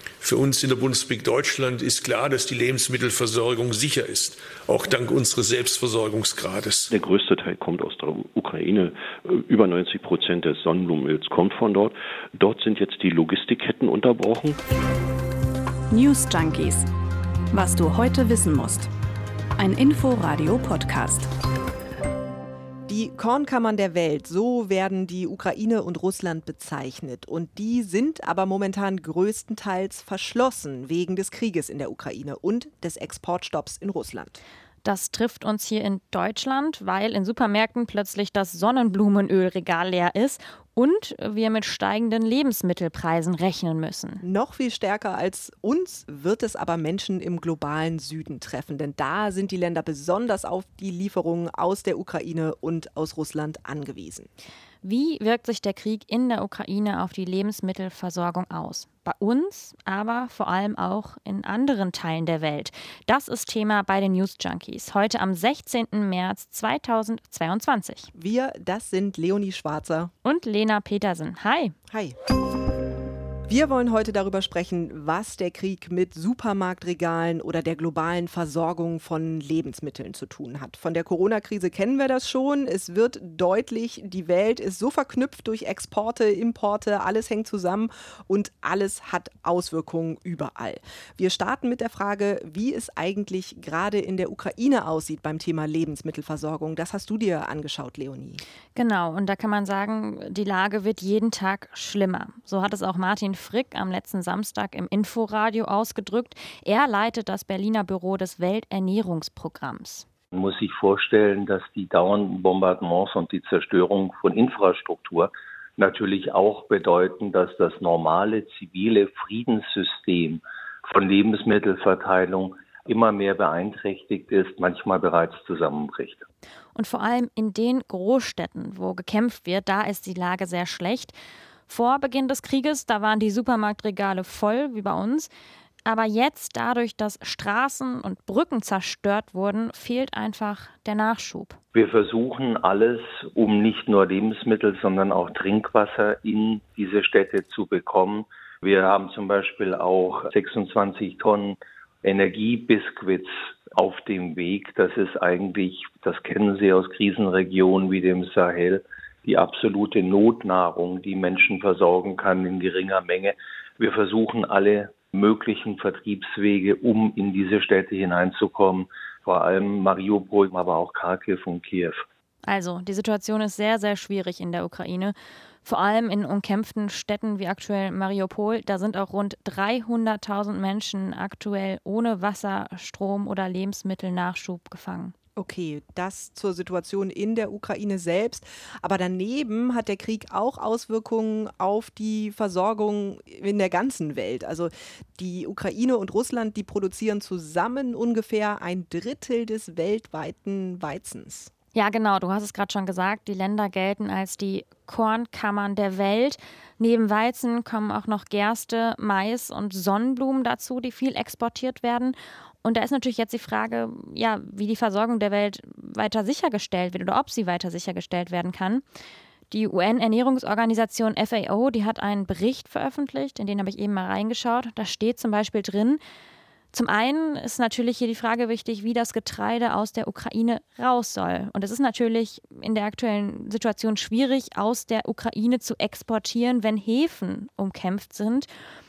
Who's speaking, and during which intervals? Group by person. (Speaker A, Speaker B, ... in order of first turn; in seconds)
Speaker A: 0.2-6.9
Speaker B: 6.9-14.6
Speaker C: 15.9-16.8, 17.5-18.9, 19.6-21.2
Speaker D: 22.9-34.4, 44.2-54.3, 68.1-70.1, 71.9-72.2, 73.5-98.4, 185.4-201.5
Speaker E: 34.8-44.2, 54.8-68.1, 70.2-71.8, 98.8-110.1, 126.8-131.2, 131.7-135.3, 135.8-141.6, 172.4-185.1, 201.8-218.8, 219.5-226.0, 226.7-238.5
Speaker F: 110.3-126.2, 141.7-172.0